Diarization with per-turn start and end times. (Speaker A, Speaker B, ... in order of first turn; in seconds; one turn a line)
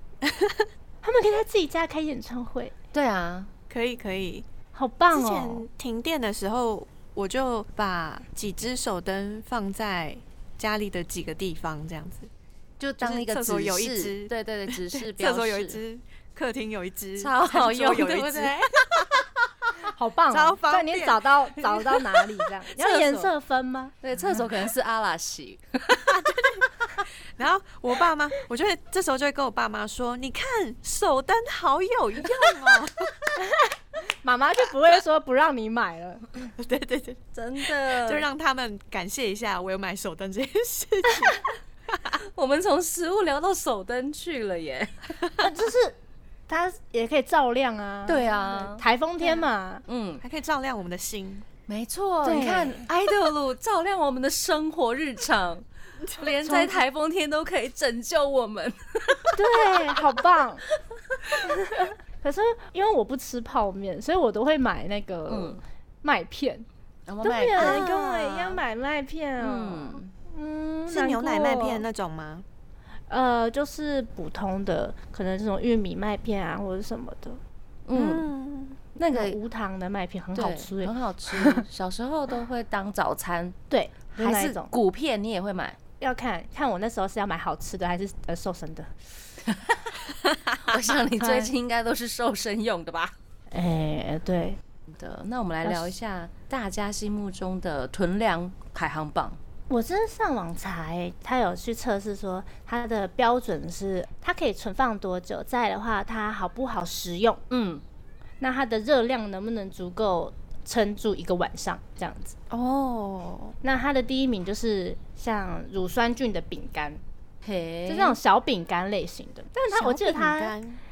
Speaker A: 0.3-0.6
Speaker B: 1.0-2.7
Speaker C: 2.9-3.5
Speaker A: 3.7-4.5
Speaker B: 4.8-5.7
Speaker A: 5.1-12.3
Speaker C: 12.8-15.8
Speaker A: 13.0-19.5
Speaker C: 17.2-18.7
Speaker B: 19.9-23.9
Speaker A: 20.3-21.2
Speaker C: 22.8-23.3
Speaker C: 24.0-26.2
Speaker A: 26.1-26.7
Speaker A: 27.4-33.1
Speaker C: 32.4-32.8
Speaker B: 33.4-36.4
Speaker A: 36.6-41.5
Speaker C: 37.3-38.2
Speaker C: 42.1-45.2
Speaker B: 45.4-46.0
Speaker B: 46.5-49.8
Speaker C: 48.1-48.8
Speaker C: 49.9-50.2
Speaker A: 50.2-51.5
Speaker C: 51.7-59.8
Speaker B: 52.2-52.9
Speaker B: 56.4-56.8
Speaker B: 59.4-60.6
Speaker B: 61.4-66.7
Speaker C: 65.3-65.6
Speaker C: 67.1-68.6
Speaker B: 67.2-71.9
Speaker A: 67.6-68.0
Speaker C: 69.4-70.1
Speaker A: 70.9-72.5
Speaker B: 73.1-77.4
Speaker C: 77.9-78.3
Speaker A: 78.0-78.8
Speaker C: 79.0-79.4
Speaker B: 79.1-81.6
Speaker C: 80.3-83.6
Speaker B: 83.7-84.7
Speaker C: 84.2-85.8
Speaker B: 86.0-89.1
Speaker C: 89.5-89.8
Speaker C: 90.6-93.2
Speaker B: 91.2-91.5
Speaker B: 93.5-94.6
Speaker C: 94.9-99.4
Speaker B: 95.6-95.9
Speaker B: 99.7-107.4
Speaker C: 107.5-107.8
Speaker B: 108.4-112.4
Speaker A: 112.5-113.5
Speaker B: 113.6-117.0
Speaker C: 117.4-118.2
Speaker B: 117.9-120.6
Speaker A: 119.7-120.8